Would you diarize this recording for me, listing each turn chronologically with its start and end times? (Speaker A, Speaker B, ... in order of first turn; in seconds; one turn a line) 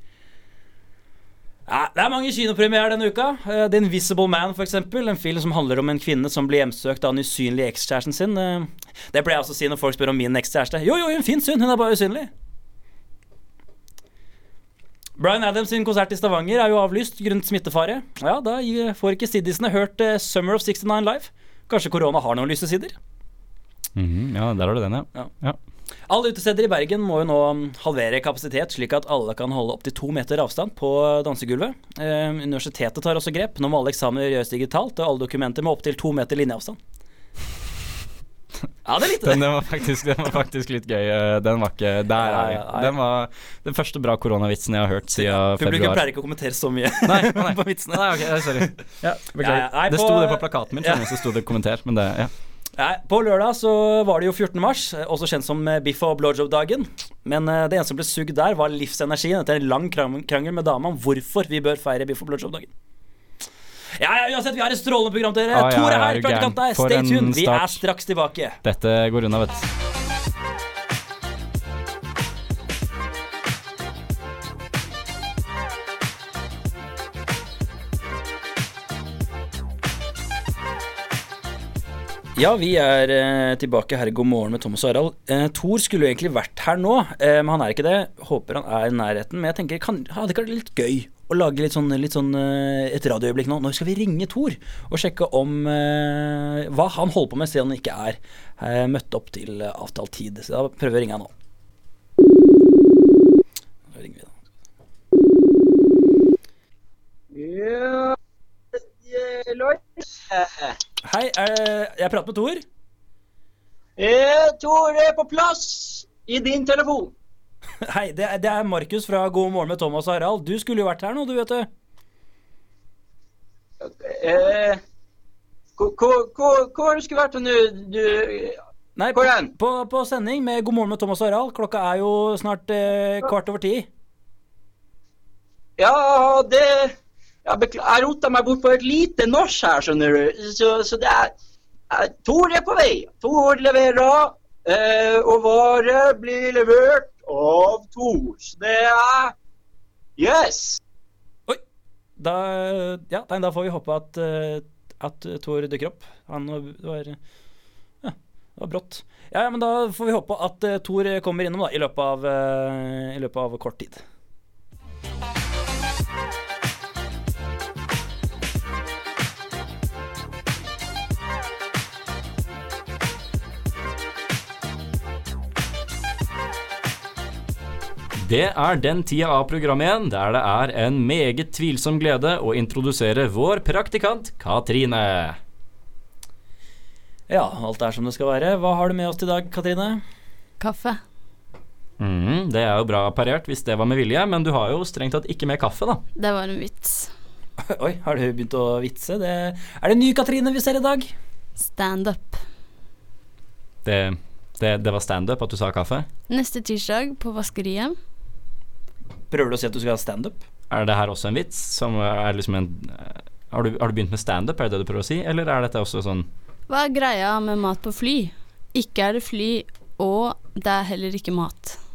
Speaker A: 1.7-12.3
Speaker A: 15.2-23.0
Speaker B: 24.0-25.6
Speaker A: 26.1-36.8
Speaker A: 38.9-39.4
Speaker B: 39.2-46.0
Speaker A: 42.2-43.0
Speaker A: 45.1-48.7
Speaker B: 47.1-52.3
Speaker A: 49.4-51.2
Speaker A: 52.8-62.7
Speaker A: 64.0-68.6
Speaker B: 65.5-67.8
Speaker B: 68.6-69.7
Speaker A: 82.3-101.3
Speaker A: 103.9-104.3
Speaker C: 107.3-108.2
Speaker C: 109.0-110.8
Speaker A: 111.0-112.6
Speaker C: 114.0-117.1
Speaker A: 117.8-121.7
Speaker C: 123.8-124.8
Speaker C: 125.8-128.6
Speaker A: 129.0-133.9
Speaker C: 129.1-129.5
Speaker C: 135.8-136.9
Speaker C: 137.4-141.3
Speaker C: 141.9-149.3
Speaker C: 150.2-150.8
Speaker A: 152.2-157.2
Speaker A: 158.0-164.0
Speaker B: 178.2-185.4
Speaker A: 187.3-190.0
Speaker D: 190.6-191.0
Speaker B: 192.0-196.0
Speaker D: 196.2-197.1
Speaker A: 197.7-201.1
Speaker D: 201.6-202.4
Speaker B: 203.8-206.1
Speaker D: 206.3-207.9
Speaker A: 209.3-210.4
Speaker B: 210.7-216.3
Speaker D: 216.7-221.8